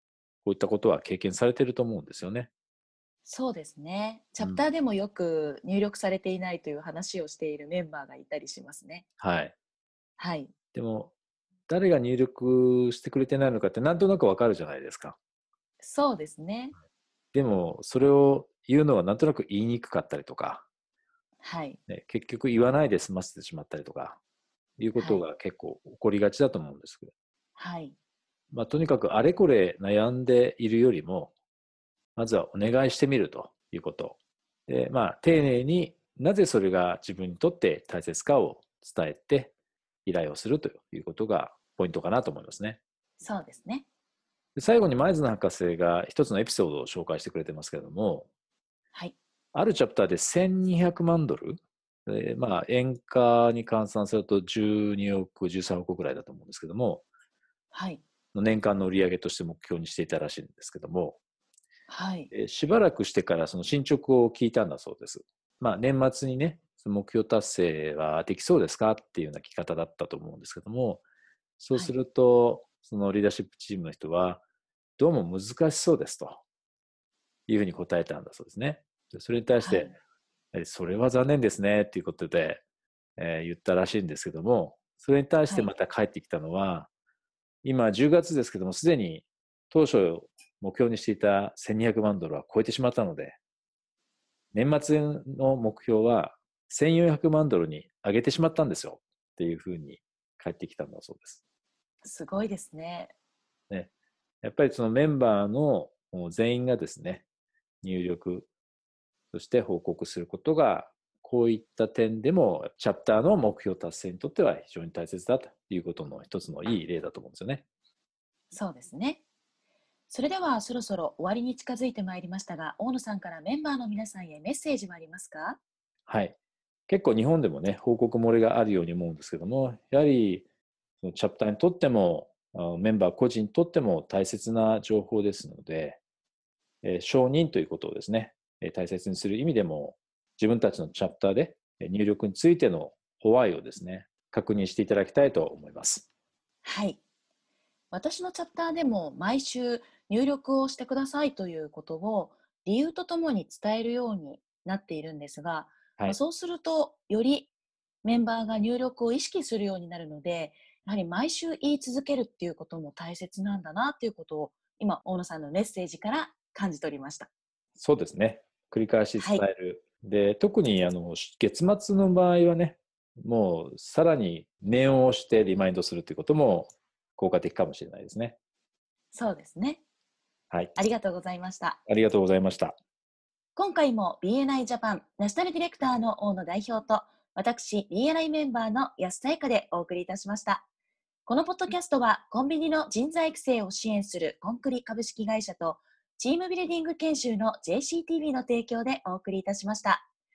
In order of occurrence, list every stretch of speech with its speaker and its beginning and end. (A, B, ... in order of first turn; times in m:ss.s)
0:00.4-0:02.5 A
0:03.2-0:09.0 B
0:09.2-0:09.5 A
0:10.2-0:10.5 B
0:10.7-0:11.1 A
0:11.7-0:15.2 A
0:15.8-0:16.7 B
0:17.3-0:20.6 A
0:21.4-0:21.8 B
0:21.9-0:24.2 A
0:24.8-0:27.1 A
0:25.0-0:25.2 B
0:27.6-0:27.9 B
0:28.5-0:31.3 A
0:32.2-0:39.5 A
0:40.0-0:42.8 A
0:43.2-0:43.8 B
0:44.6-0:48.3 A
0:49.5-0:57.0 A
0:57.7-0:58.0 B
0:58.3-1:01.2 A
1:01.9-1:02.3 B
1:02.3-1:11.0 A
1:11.6-1:14.4 A
1:15.0-1:16.4 A
1:17.5-1:19.9 A
1:19.6-1:19.9 B
1:20.5-1:22.6 A
1:23.2-1:26.9 A
1:25.4-1:25.7 B
1:27.6-1:33.4 A
1:34.5-1:41.4 A
1:42.0-1:43.1 B
1:44.4-1:47.2 A
1:47.8-1:48.5 A
1:49.3-1:57.6 A
1:58.5-1:59.2 B
2:00.1-2:05.6 B
2:06.1-2:06.4 A
2:06.9-2:10.4 A
2:11.0-2:16.0 A
2:16.8-2:26.0 A
2:26.6-2:27.0 B
2:27.9-2:37.5 B
2:38.0-2:47.3 B
2:47.8-2:58.4 A
2:49.2-2:49.4 B
2:59.1-2:59.8 B
3:00.5-3:00.7 A
3:00.7-3:01.8 B
3:01.9-3:02.7 A
3:03.6-3:10.6 B
3:11.2-3:20.0 B